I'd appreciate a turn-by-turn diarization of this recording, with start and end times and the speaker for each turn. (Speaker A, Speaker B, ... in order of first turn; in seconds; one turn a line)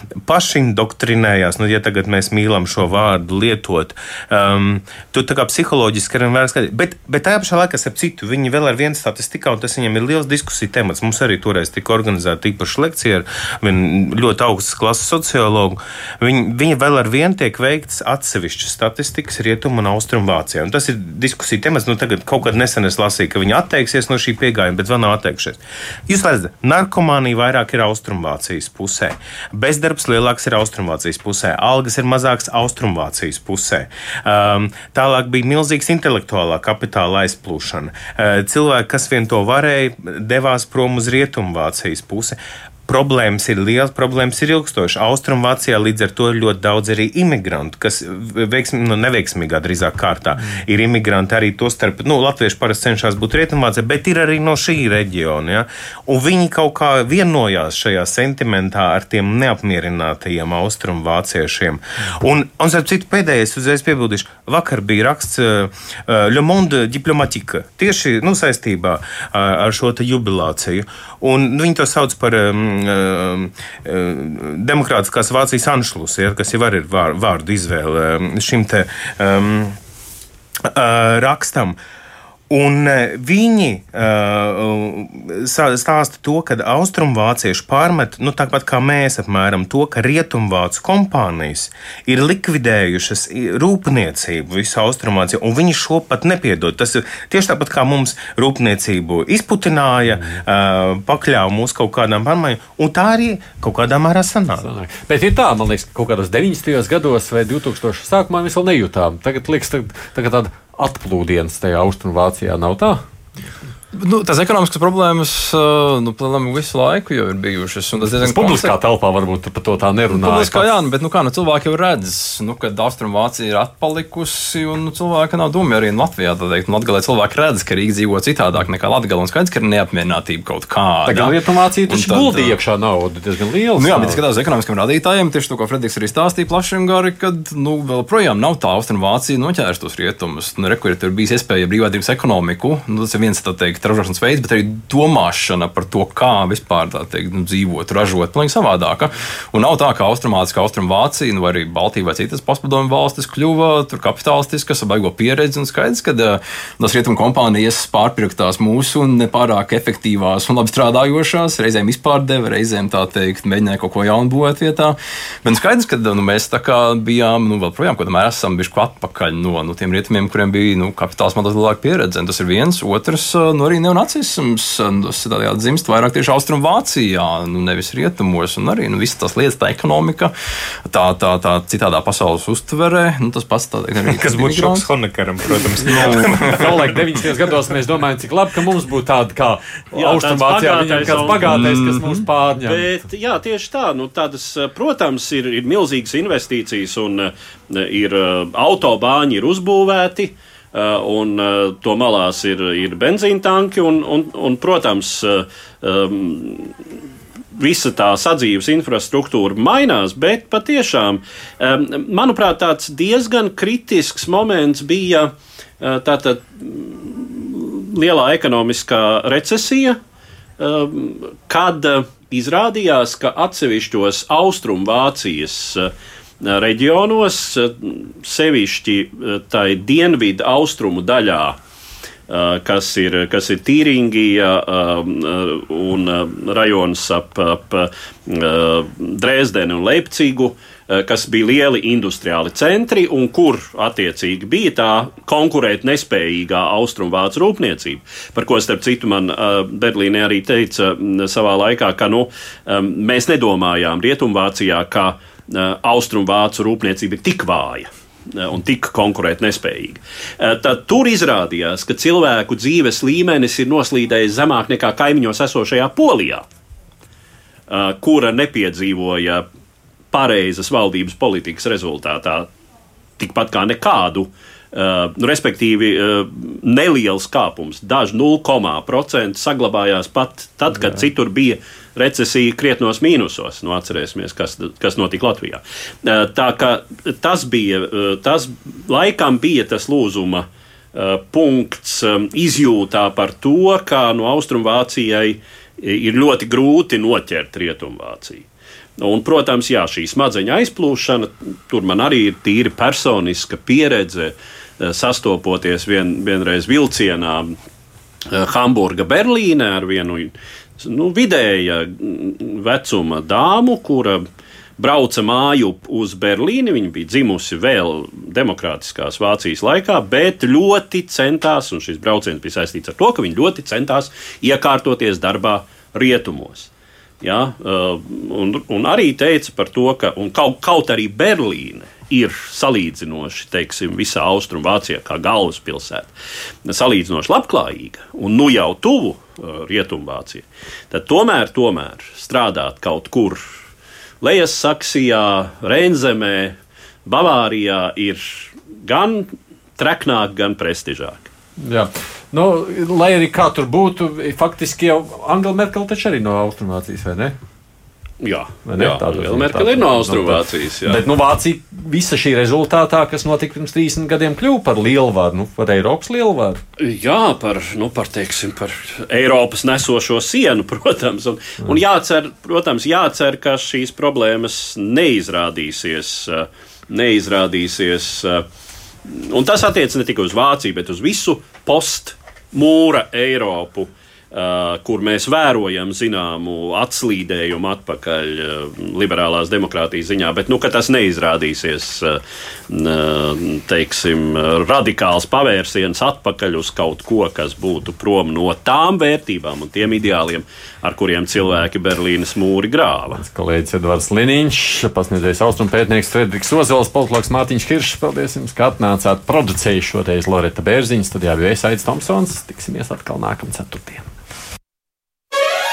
Speaker A: 0.2-79.8
Speaker A: 80.7-81.8
Speaker A: 82.5-104.7
Speaker B: 104.6-113.0
Speaker C: 113.9-118.7
Speaker B: 118.2-120.7
Speaker C: 120.1-131.3
Speaker B: 131.1-134.2
Speaker C: 131.9-132.5
Speaker C: 133.8-180.3
Speaker C: 180.9-184.9
Speaker A: 184.0-187.2
Speaker C: 185.8-186.4
Speaker B: 185.8-193.0
Speaker D: 189.9-191.6
Speaker C: 191.4-192.1
Speaker D: 192.6-206.7
Speaker D: 207.6-220.0
Speaker D: 220.6-231.6
Speaker D: 232.3-266.4
Speaker D: 267.7-269.4
Speaker D: 270.1-272.5
Speaker D: 273.2-298.4
Speaker D: 299.0-307.5
Speaker D: 308.3-314.2
Speaker D: 314.8-326.7
Speaker D: 327.2-336.1
Speaker D: 336.6-343.4
Speaker D: 344.2-351.3
Speaker B: 351.6-357.3
Speaker D: 358.2-361.0
Speaker B: 358.6-366.6
Speaker D: 366.8-378.4
Speaker D: 379.0-403.2
Speaker B: 403.1-414.1